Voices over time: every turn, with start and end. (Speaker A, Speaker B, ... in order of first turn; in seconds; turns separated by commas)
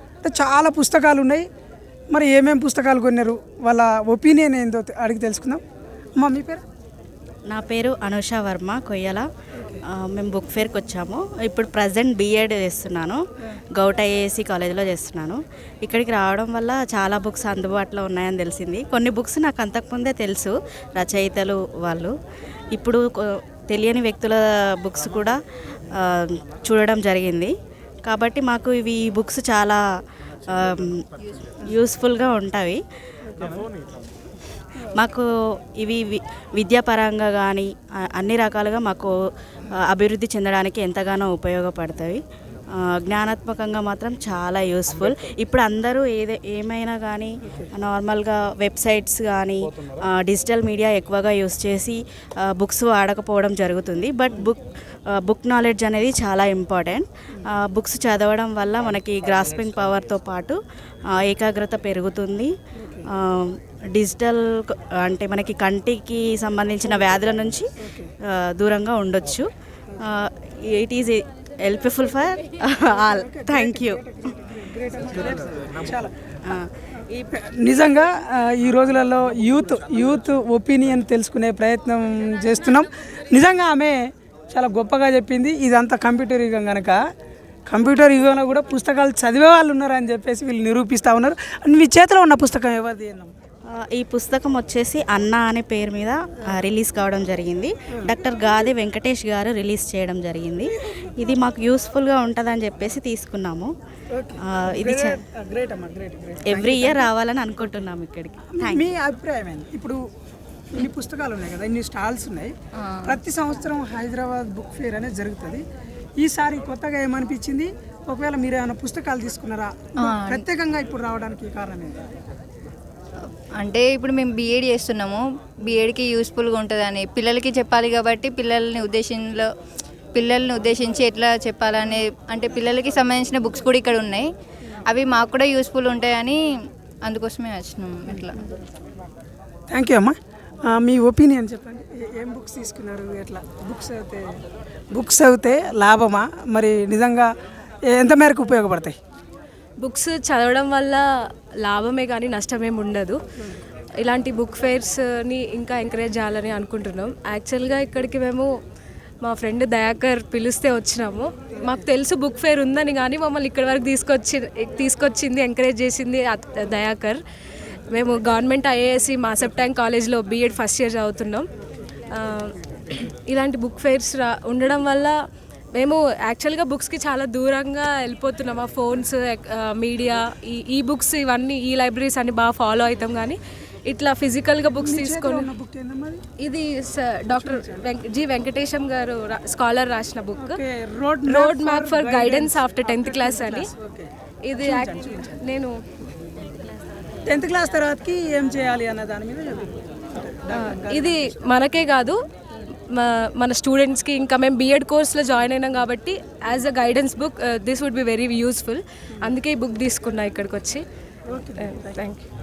Speaker A: 0.2-1.5, Speaker A: 2.1-5.6, Speaker A: 6.2-6.6, Speaker B: 7.5-9.2, Speaker B: 9.9-13.2, Speaker B: 13.8-22.1, Speaker B: 22.7-25.4, Speaker B: 26.0-27.5, Speaker B: 28.1-29.8, Speaker B: 30.6-31.0, Speaker B: 31.6-32.8, Speaker B: 35.0-35.2, Speaker B: 35.8-39.1, Speaker B: 39.9-42.2, Speaker B: 42.8-54.6, Speaker B: 55.2-60.6, Speaker B: 61.2-62.5, Speaker B: 63.1-67.7, Speaker B: 68.3-69.5, Speaker B: 70.1-74.0, Speaker A: 73.3-76.1, Speaker A: 77.1-87.0, Speaker A: 87.7-93.3, Speaker B: 93.8-103.7, Speaker A: 104.2-107.1, Speaker B: 104.6-105.1, Speaker B: 106.5-108.9, Speaker A: 108.5-110.0, Speaker A: 110.7-115.6, Speaker C: 112.8-113.2, Speaker A: 116.2-122.0, Speaker C: 120.0-120.5, Speaker C: 123.6-129.5, Speaker C: 130.1-134.3, Speaker C: 134.9-136.4, Speaker C: 137.0-138.4, Speaker A: 139.7-144.3, Speaker A: 144.9-147.3, Speaker A: 147.9-149.0, Speaker D: 149.8-151.0, Speaker D: 151.6-153.2, Speaker D: 154.0-158.5, Speaker D: 159.2-167.2, Speaker D: 167.9-171.5, Speaker D: 172.1-175.1, Speaker D: 175.8-185.5, Speaker A: 184.8-186.2, Speaker D: 186.4-190.6, Speaker A: 187.4-187.8, Speaker A: 190.3-195.3, Speaker D: 191.3-193.7, Speaker D: 194.5-195.8, Speaker A: 197.3-201.2, Speaker D: 200.7-202.2, Speaker D: 203.0-210.8, Speaker A: 211.3-211.9, Speaker D: 211.6-212.2